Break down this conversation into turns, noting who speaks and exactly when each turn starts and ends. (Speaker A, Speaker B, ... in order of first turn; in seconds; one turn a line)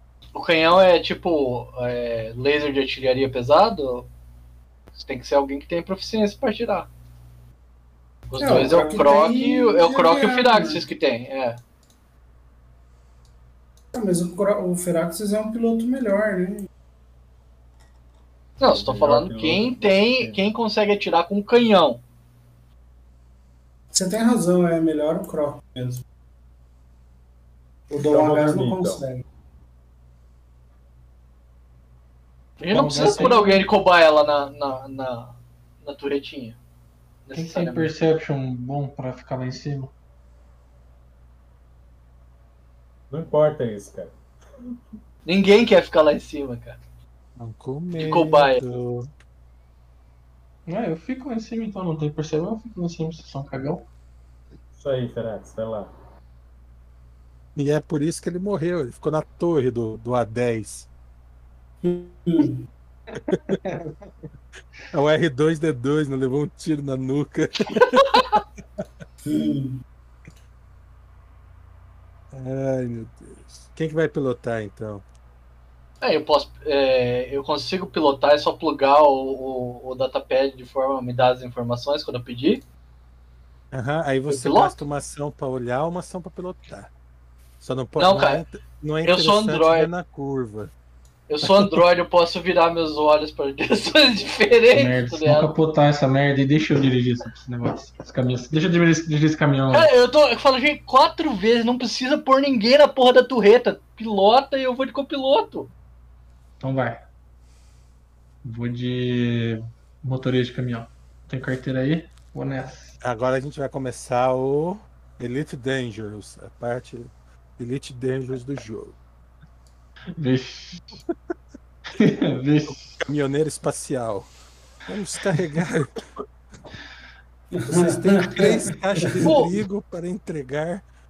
Speaker A: 0.3-4.1
Speaker A: 4.9-6.9
Speaker A: 8.3-11.6
Speaker B: 8.4-10.8
Speaker B: 13.9-16.7
Speaker A: 18.6-22.0
Speaker C: 18.7-20.4
Speaker B: 23.9-26.0
Speaker B: 27.9-29.2
Speaker C: 28.0-29.0
Speaker A: 32.6-36.6
Speaker D: 32.7-33.6
Speaker A: 37.2-37.9
Speaker D: 37.3-39.9
Speaker C: 43.1-44.1
Speaker A: 45.3-46.8
Speaker E: 47.4-49.1
Speaker A: 48.0-48.6
Speaker D: 50.7-53.9
Speaker C: 54.8-55.9
Speaker E: 57.6-60.9
Speaker B: 61.8-62.6
Speaker D: 63.2-64.0
Speaker E: 63.3-63.6
Speaker E: 64.9-68.2
Speaker B: 69.2-69.8
Speaker E: 72.3-75.0
Speaker A: 76.0-82.6
Speaker E: 83.7-86.9
Speaker A: 84.3-84.8
Speaker E: 87.6-90.7
Speaker A: 88.0-88.5
Speaker A: 89.0-89.9
Speaker A: 91.3-95.5
Speaker D: 94.7-99.9
Speaker A: 99.7-105.7
Speaker D: 106.6-107.0
Speaker D: 108.4-113.0
Speaker E: 113.0-119.0
Speaker D: 120.2-120.8
Speaker D: 122.0-122.9
Speaker E: 122.7-124.3
Speaker E: 124.9-125.9
Speaker B: 127.5-129.4
Speaker E: 127.7-130.8